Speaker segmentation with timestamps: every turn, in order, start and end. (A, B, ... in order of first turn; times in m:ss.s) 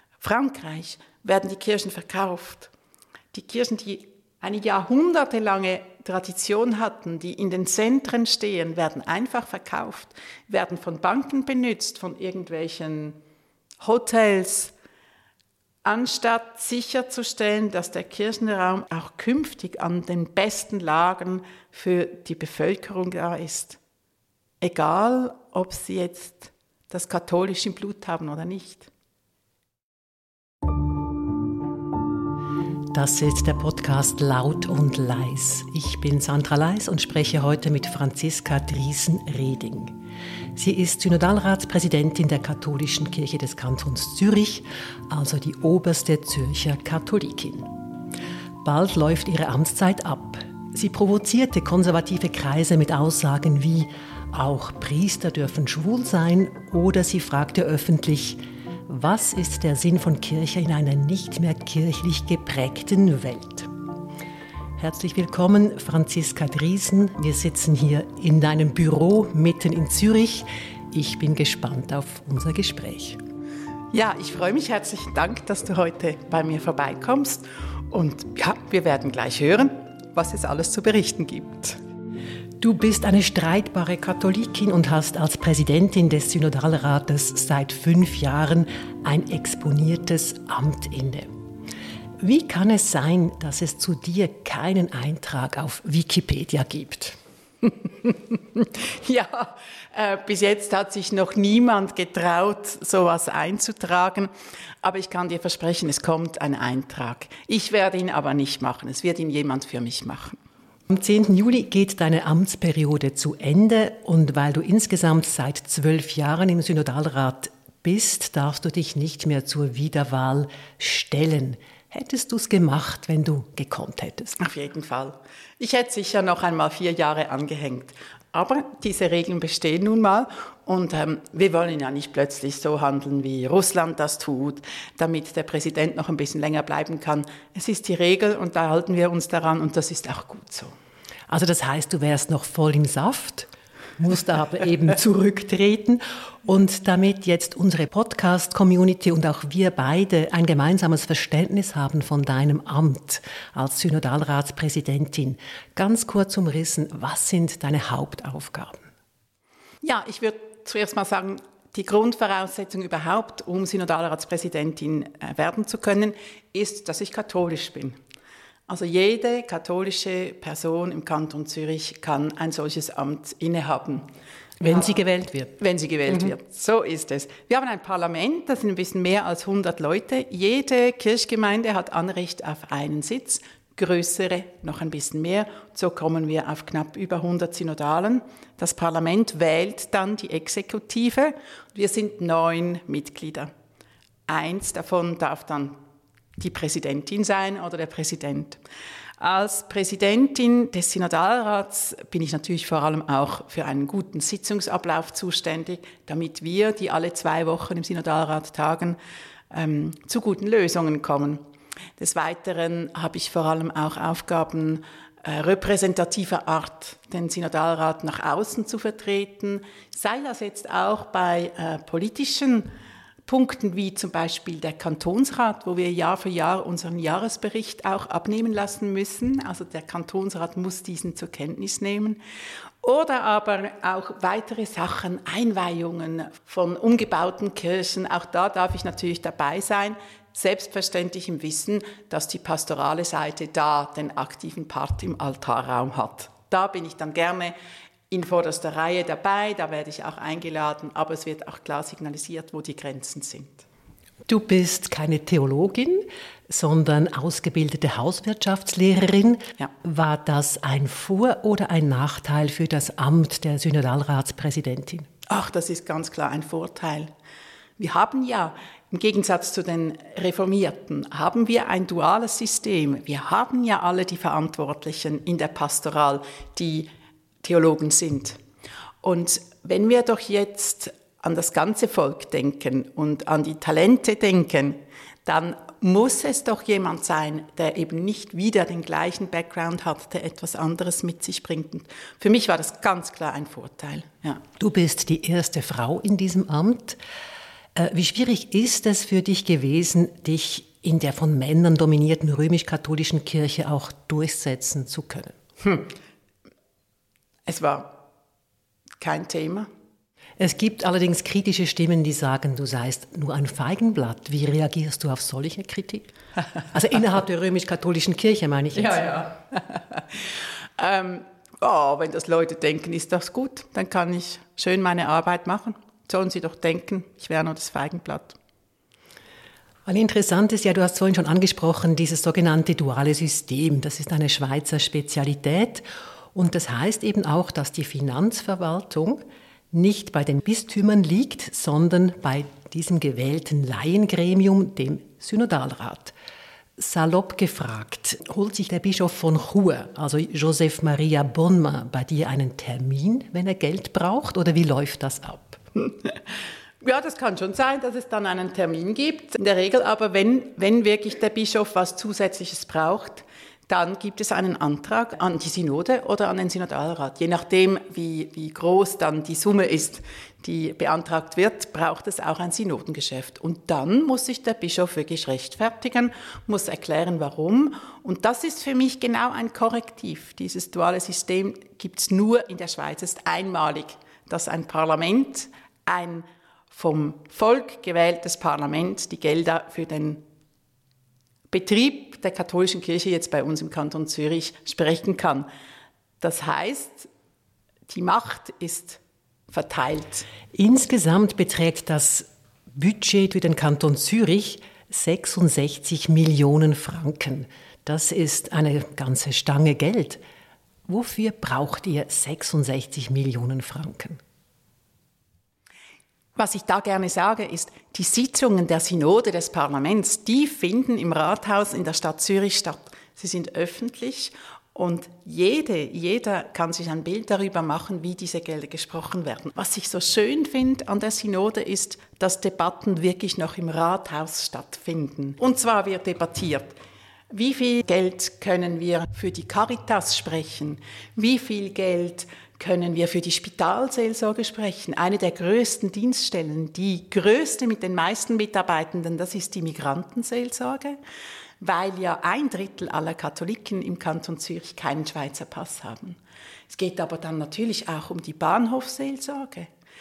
0:00.2-0:02.7 A
0:03.3-0:13.2 A
0:13.8-0:14.7 A
0:15.8-0:23.8 A
0:24.6-0:28.9 A
0:32.9-0:40.0 B
0:40.5-0:47.7 B
0:48.6-1:03.7 B
1:04.8-1:13.2 B
1:13.9-1:21.8 A
1:22.6-1:31.3 B
1:32.2-1:37.2 B
1:38.0-1:44.3 A
1:44.8-1:50.4 A
1:50.9-2:04.4 B
2:04.4-2:20.7 A
2:21.3-2:38.9 B
2:39.8-2:48.0 A
2:48.7-2:54.1 A
2:54.6-2:55.6 B
2:54.7-2:55.0 A
2:55.6-3:13.5 A
3:14.3-3:15.8 A
3:16.4-3:18.6 A
3:19.2-3:29.0 A
3:29.5-3:31.4 A
3:32.0-3:42.7 A
3:43.2-3:52.2 A
3:52.8-4:07.5 A
4:08.1-4:13.6 A
4:14.3-4:25.1 B
4:25.3-4:27.1 A
4:27.8-4:36.9 A
4:37.4-4:38.4 A
4:39.0-4:54.4 A
4:54.6-4:57.0 B
4:57.7-5:05.4 B
5:07.5-5:08.0 A
5:09.0-5:09.7 A
5:10.4-5:16.1 B
5:16.7-5:19.0 B
5:18.8-5:20.3 A
5:20.8-5:28.4 A
5:29.8-5:46.1 B
5:46.8-5:55.6 B
5:56.8-6:30.2 A
6:31.5-6:35.5 A
6:36.2-6:37.1 A
6:37.9-6:40.3 A
6:40.5-6:50.2 B
6:50.9-6:54.2 B
6:56.4-7:16.8 A
7:17.3-7:31.0 A
7:31.6-7:36.2 A
7:36.7-7:39.7 A